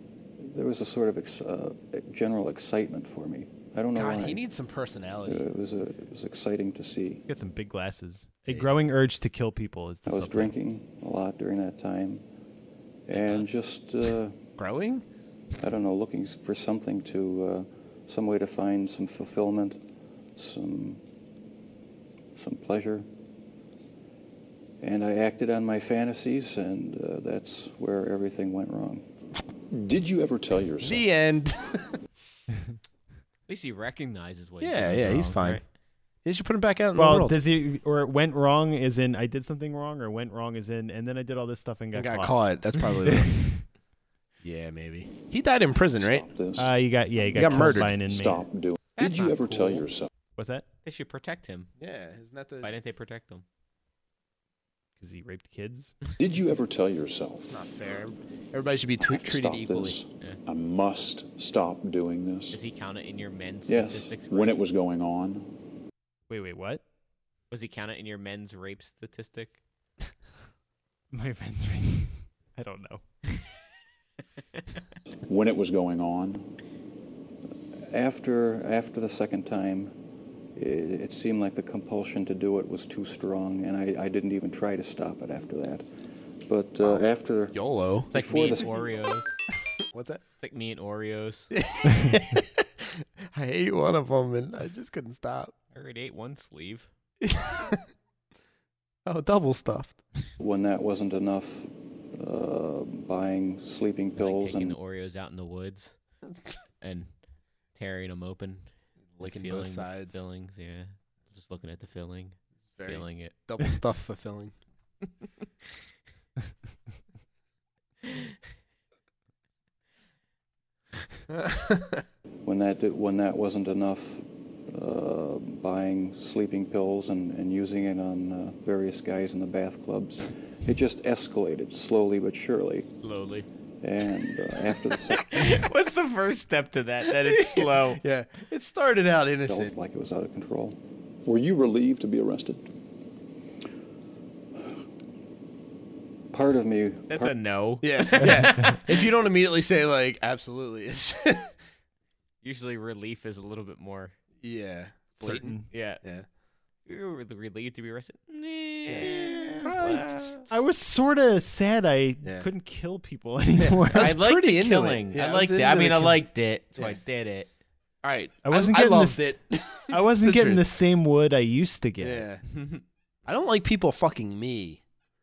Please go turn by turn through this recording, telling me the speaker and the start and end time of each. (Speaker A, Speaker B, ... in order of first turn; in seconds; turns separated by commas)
Speaker A: 0.4-4.4, Speaker B: 3.9-5.5, Speaker A: 5.2-7.2, Speaker C: 7.3-10.6, Speaker A: 10.1-12.2, Speaker A: 13.1-14.4, Speaker B: 14.6-15.0, Speaker A: 15.6-19.8, Speaker A: 20.4-21.0, Speaker A: 22.4-23.1, Speaker A: 24.8-29.1, Speaker D: 29.7-31.1, Speaker B: 30.8-32.0, Speaker E: 33.5-35.6, Speaker B: 34.6-35.6, Speaker B: 36.2-37.4, Speaker C: 37.0-42.4, Speaker B: 42.0-43.4, Speaker C: 43.1-43.6, Speaker B: 44.4-46.3, Speaker D: 46.0-50.1, Speaker C: 46.6-48.5, Speaker B: 47.4-47.9, Speaker E: 49.0-49.8, Speaker C: 50.4-50.6, Speaker E: 50.8-51.7, Speaker B: 51.8-52.7, Speaker E: 52.6-53.5, Speaker C: 55.0-56.0, Speaker D: 56.2-57.6, Speaker B: 57.5-60.0, Speaker D: 59.0-62.6, Speaker E: 62.5-64.6, Speaker A: 63.7-64.2, Speaker D: 64.3-65.5, Speaker C: 66.3-66.8, Speaker E: 67.5-69.6, Speaker C: 71.1-73.3, Speaker D: 75.3-76.5, Speaker A: 77.9-80.0, Speaker A: 80.5-85.8, Speaker A: 86.5-88.8, Speaker B: 87.5-88.1, Speaker E: 88.1-89.3, Speaker B: 89.8-90.2, Speaker E: 90.4-91.5, Speaker B: 91.5-95.5, Speaker E: 95.7-96.9, Speaker B: 97.2-97.8, Speaker B: 99.1-100.0, Speaker A: 100.4-104.8, Speaker E: 104.2-106.0, Speaker E: 106.8-107.1, Speaker E: 107.7-113.3, Speaker B: 109.2-110.2, Speaker B: 112.8-114.5, Speaker B: 121.3-122.0, Speaker A: 122.5-132.9, Speaker E: 133.0-133.5, Speaker A: 133.8-135.6, Speaker E: 135.2-138.0, Speaker B: 137.1-139.7, Speaker A: 139.5-140.8, Speaker D: 141.2-142.6, Speaker A: 146.3-147.3, Speaker E: 147.1-148.8, Speaker B: 147.8-151.5, Speaker C: 148.2-148.8, Speaker E: 152.4-154.1, Speaker B: 154.4-156.3, Speaker C: 155.2-155.7, Speaker E: 155.5-156.0, Speaker E: 156.9-160.6, Speaker C: 159.0-159.7, Speaker B: 159.6-160.4, Speaker C: 160.5-164.2, Speaker B: 163.6-166.2, Speaker E: 163.9-167.5, Speaker B: 168.0-170.7, Speaker C: 168.4-172.3, Speaker B: 172.0-172.4, Speaker E: 172.5-172.8, Speaker B: 173.3-174.8